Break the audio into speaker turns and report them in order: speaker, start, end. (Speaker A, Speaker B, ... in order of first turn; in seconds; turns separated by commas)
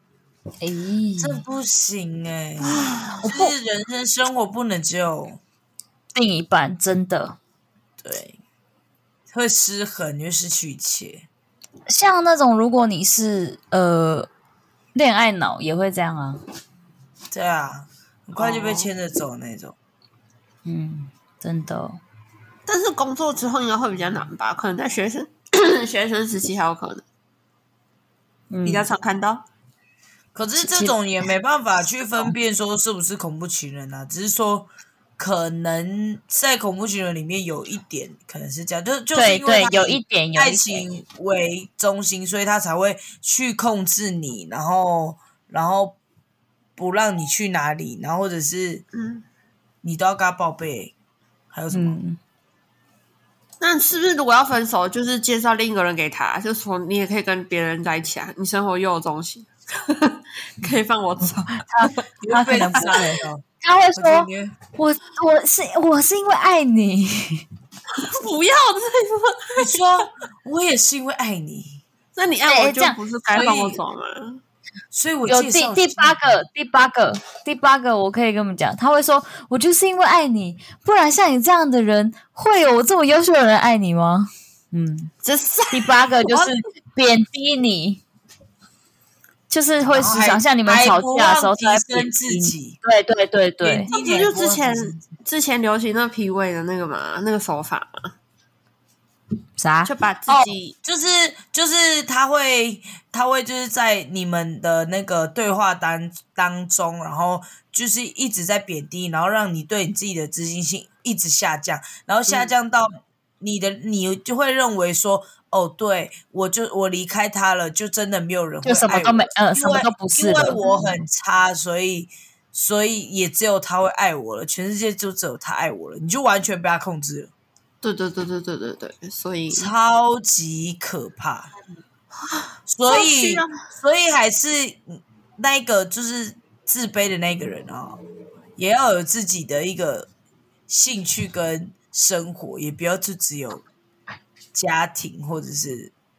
Speaker A: 0.6-1.4, Speaker B: 1.2-5.4, Speaker C: 2.6-3.2, Speaker A: 3.3-3.5, Speaker A: 6.1-7.4, Speaker B: 8.0-8.4, Speaker B: 9.3-11.3, Speaker A: 11.9-14.3, Speaker A: 14.9-16.4, Speaker B: 17.3-19.8, Speaker C: 18.4-18.9, Speaker A: 20.6-22.0, Speaker C: 22.7-27.0, Speaker A: 28.5-28.9, Speaker C: 28.6-29.4, Speaker B: 30.3-46.0, Speaker A: 30.6-31.0, Speaker A: 39.1-40.9, Speaker B: 46.8-48.8, Speaker C: 48.9-49.2, Speaker B: 49.8-50.9, Speaker B: 51.5-52.0, Speaker A: 51.7-52.2, Speaker C: 53.6-62.0, Speaker A: 61.5-67.5, Speaker B: 62.2-63.4, Speaker C: 62.6-62.9, Speaker B: 64.0-64.6, Speaker C: 68.0-70.1, Speaker B: 69.6-71.8, Speaker C: 72.2-74.4, Speaker A: 72.5-73.0, Speaker B: 73.3-73.8, Speaker B: 74.9-76.3, Speaker A: 75.3-85.1, Speaker C: 85.2-86.5, Speaker A: 85.7-88.0, Speaker A: 89.5-93.9, Speaker B: 89.8-92.8, Speaker B: 93.6-95.0, Speaker C: 93.9-98.1, Speaker A: 99.6-100.5, Speaker C: 99.8-100.8, Speaker B: 100.8-127.3, Speaker A: 118.6-120.6, Speaker C: 127.8-129.7, Speaker B: 129.5-131.5, Speaker C: 132.2-133.7, Speaker B: 132.7-138.0, Speaker B: 138.6-140.1, Speaker B: 140.7-143.6, Speaker B: 144.5-145.9